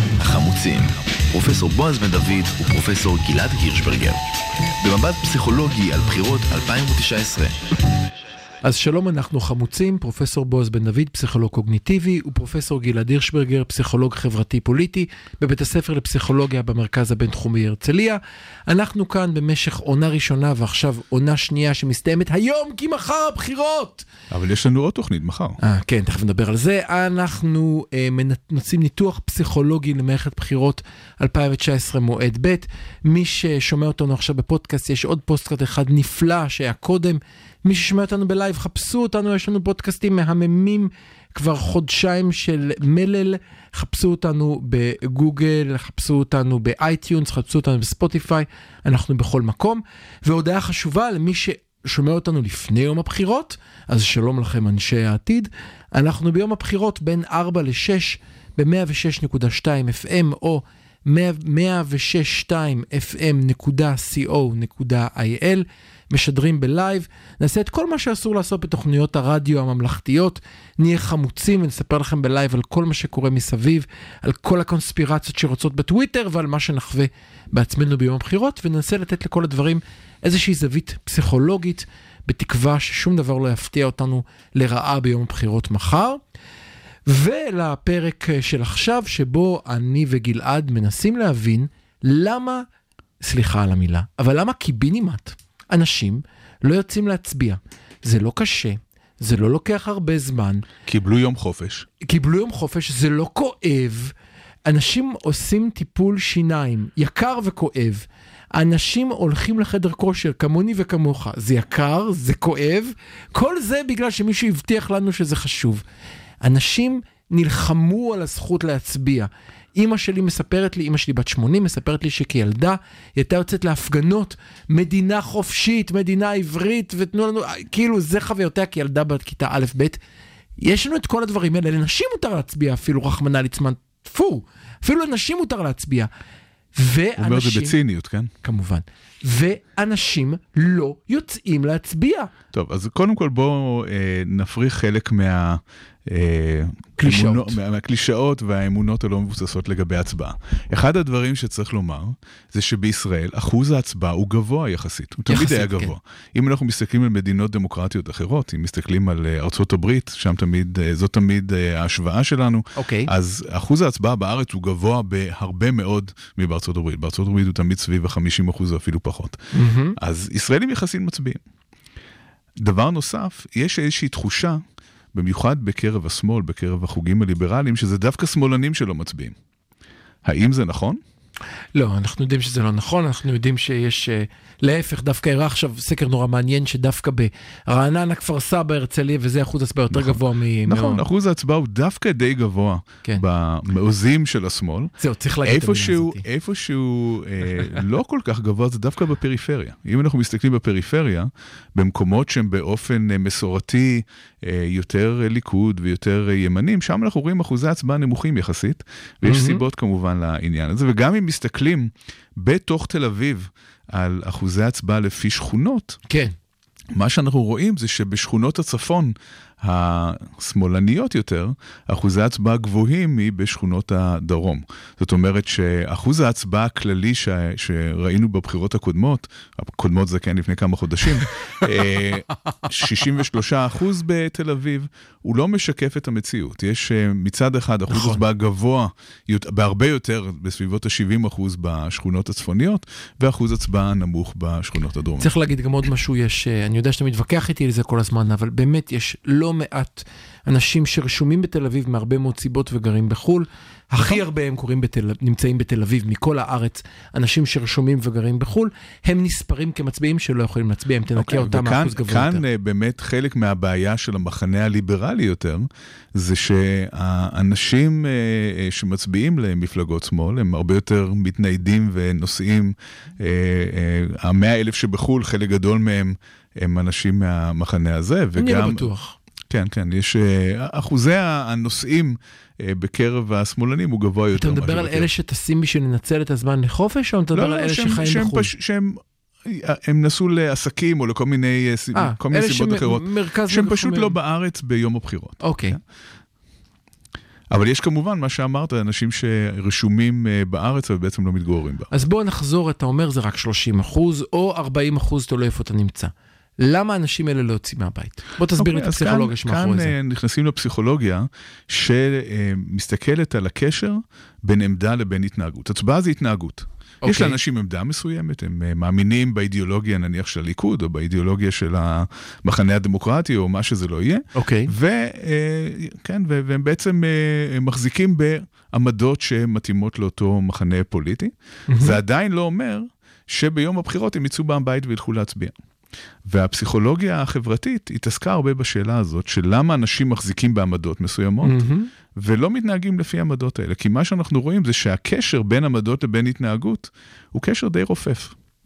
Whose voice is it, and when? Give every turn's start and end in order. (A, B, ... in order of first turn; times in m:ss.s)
0:00.2-0:04.2 A
0:04.8-0:07.6 A
0:08.6-0:24.1 B
0:24.3-0:25.6 C
0:25.6-1:26.2 B
1:27.1-1:32.7 B
1:33.2-1:40.7 B
1:40.9-1:41.9 C
1:42.0-1:44.1 B
1:44.7-1:55.8 B
1:56.4-2:10.0 B
2:10.6-2:16.1 B
2:16.8-2:17.8 B
2:17.2-2:18.3 C
2:18.4-2:22.3 B
2:22.5-2:49.4 C
2:27.0-2:27.6 B
2:35.3-2:35.9 B
2:42.8-2:43.1 B
2:49.5-2:50.0 B
2:50.0-2:51.4 C
2:52.6-2:54.6 C
2:55.1-2:59.4 C
3:00.2-3:01.0 C
3:01.7-3:11.0 B
3:09.9-3:14.9 C
3:15.0-3:16.2 B
3:15.4-3:36.0 C
3:29.2-3:29.6 B
3:36.1-3:36.3 B
3:36.9-4:05.3 C
3:57.9-3:58.2 B
4:05.2-4:22.4 B
4:14.0-4:14.2 C
4:21.2-4:38.9 C
4:38.4-4:39.2 B
4:39.5-4:45.1 C
4:44.4-4:48.5 B
4:47.3-4:55.8 C
4:51.9-4:54.2 B
4:55.4-4:55.8 B
4:57.5-5:01.9 C
5:01.9-5:10.0 B
5:08.6-5:35.5 C
5:17.0-5:17.4 B
5:24.4-5:24.7 B
5:31.7-5:32.0 B
5:36.3-5:48.4 C
5:41.4-5:41.9 B